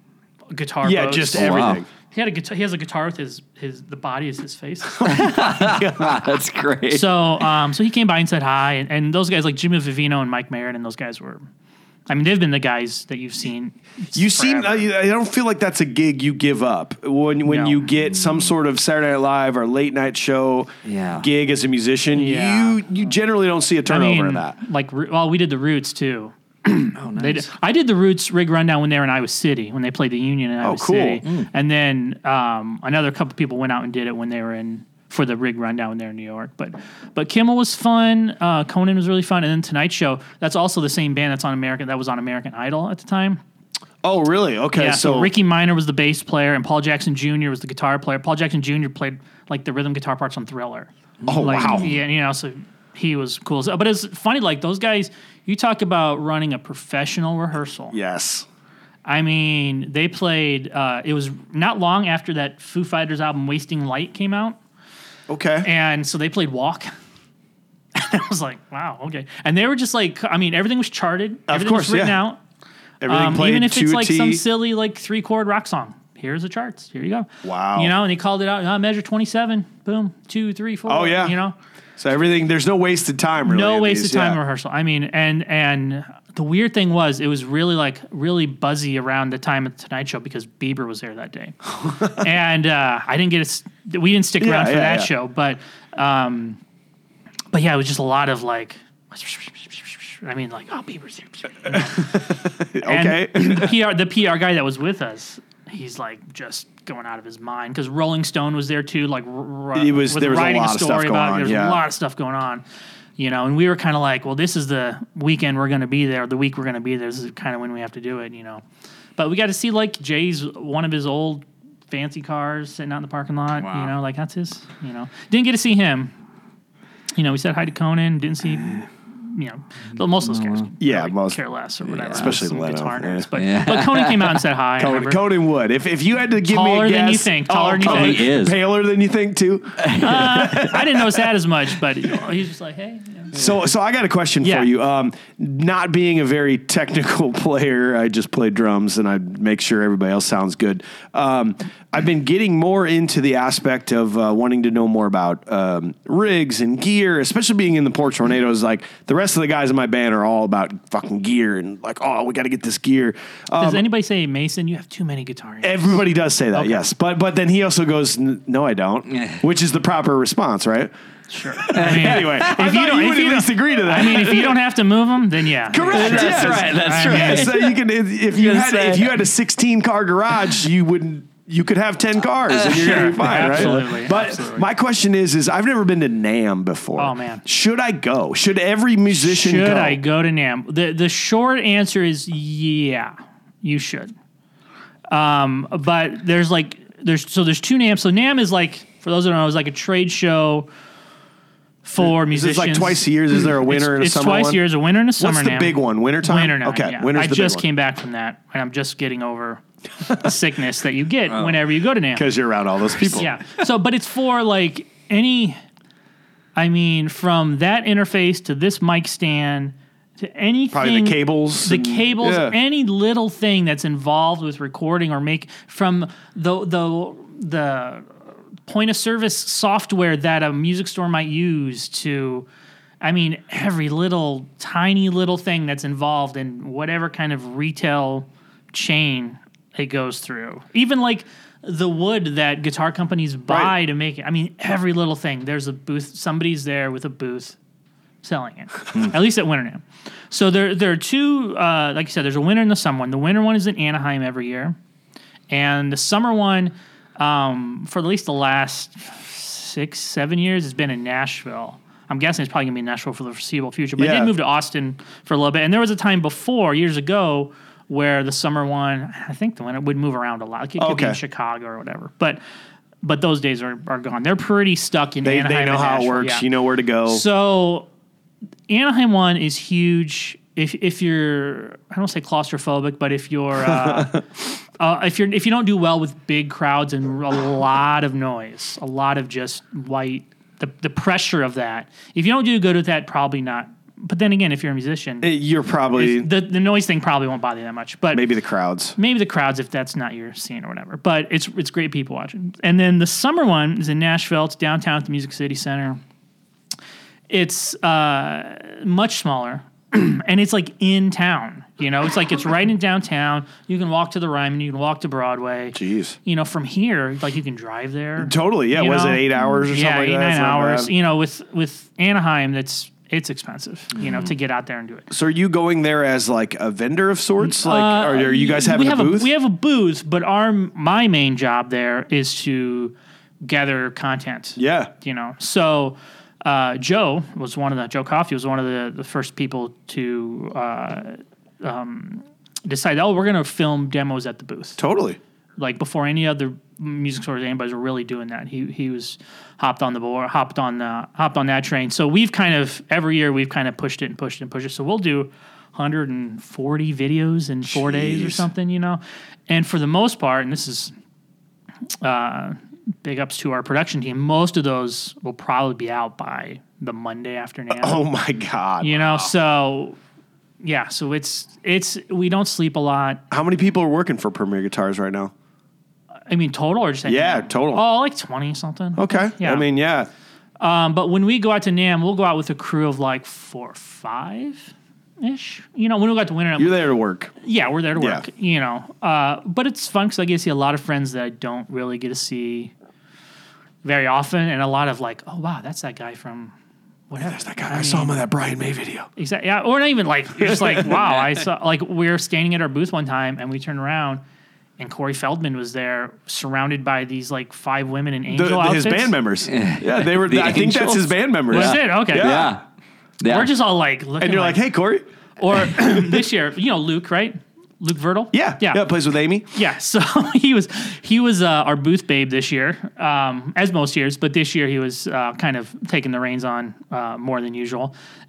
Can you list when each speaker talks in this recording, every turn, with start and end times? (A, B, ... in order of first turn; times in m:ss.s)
0:00.5-0:05.4 A
0:00.8-0:01.9 B
0:01.3-0:01.8 C
0:04.9-0:06.3 B
0:05.0-0:07.1 C
0:06.9-0:11.4 A
0:12.1-0:14.9 A
0:14.1-0:24.6 B
0:17.5-0:17.8 A
0:20.8-0:21.2 C
0:22.1-0:22.8 A
0:23.9-0:43.4 A
0:27.0-0:27.4 C
0:30.6-0:31.2 B
0:44.0-0:45.3 B
0:44.7-0:58.0 A
0:51.2-0:51.9 C
0:51.2-0:52.0 B
0:57.9-0:58.5 B
0:59.0-1:04.6 A
1:05.3-1:05.7 B
1:05.6-1:06.9 A
1:07.9-1:12.4 A
1:11.5-1:12.2 B
1:13.0-1:14.4 B
1:13.0-1:21.6 A
1:17.4-1:17.9 B
1:20.9-1:21.4 B
1:22.0-1:24.4 B
1:23.4-1:36.6 A
1:34.4-1:35.1 B
1:37.5-1:52.6 A
1:41.7-1:43.7 B
1:49.7-1:51.8 B
1:53.2-1:58.6 A
1:59.2-2:06.1 A
2:03.6-2:03.9 C
2:07.1-2:15.2 A
2:10.2-2:10.7 C
2:10.8-2:11.4 B
2:11.9-2:12.3 C
2:12.1-2:13.3 B
2:13.4-2:14.4 C
2:14.8-2:21.3 B
2:16.4-2:18.3 A
2:17.8-2:18.6 C
2:19.8-2:20.1 C
2:20.0-2:23.4 A
2:23.3-2:43.8 B
2:24.4-2:24.7 A
2:43.5-2:46.8 A
2:45.6-2:50.9 B
2:51.3-2:57.5 A
2:51.5-2:54.6 B
2:51.7-2:52.4 C
2:55.7-3:10.0 B
2:55.8-2:57.8 C
2:58.3-2:59.2 C
3:02.5-3:03.8 C
3:02.6-3:04.7 A
3:07.0-3:07.4 A
3:09.1-3:14.1 A
3:15.1-3:20.7 A
3:21.8-3:32.3 A
3:22.0-3:24.6 B
3:25.2-3:27.6 B
3:31.3-3:31.6 C
3:32.1-3:33.3 B
3:33.0-3:35.6 A
3:36.6-3:48.1 A
3:40.7-3:42.6 B
3:48.7-3:52.5 A
3:53.0-4:07.6 A
4:03.5-4:03.7 B
4:08.2-4:14.8 A
4:15.5-4:32.4 A
4:24.0-4:24.3 B
4:30.8-4:31.2 B
4:33.0-4:36.5 A
4:35.2-4:37.2 B
4:37.0-4:37.9 A
4:38.7-4:44.2 A
4:43.6-4:44.2 B
4:44.8-4:55.3 A
4:55.2-4:56.3 B
4:55.9-4:58.2 A
4:58.1-4:59.0 B
4:59.0-5:06.0 A
5:07.3-5:25.1 A
5:15.7-5:16.2 B
5:18.2-5:20.9 B
5:24.0-5:24.3 C
5:25.1-5:29.3 B
5:27.4-5:44.8 A
5:34.6-5:34.9 B
5:44.8-5:45.2 B
5:45.6-6:00.9 A
5:57.6-5:58.5 B
6:02.0-6:08.0 A
6:07.7-6:09.3 B
6:08.8-6:10.0 A
6:10.6-6:13.2 A
6:13.3-6:15.3 B
6:16.3-6:19.6 A
6:17.0-6:17.8 B
6:19.0-6:20.1 B
6:20.6-6:26.8 A
6:26.6-6:27.3 B
6:27.4-6:32.7 A
6:28.0-6:28.2 B
6:33.8-6:36.5 A
6:37.1-6:38.2 A
6:37.2-6:39.1 B
6:39.2-6:44.2 A
6:40.4-6:41.0 B
6:44.8-6:49.1 A
6:48.3-6:52.6 B
6:49.5-6:52.6 C
6:51.5-6:52.4 A
6:53.2-6:53.5 C
6:53.2-6:54.6 A
6:54.2-6:55.0 B
6:55.4-6:58.8 A
6:55.6-6:56.2 B
6:58.3-6:59.5 B
6:59.5-7:07.9 A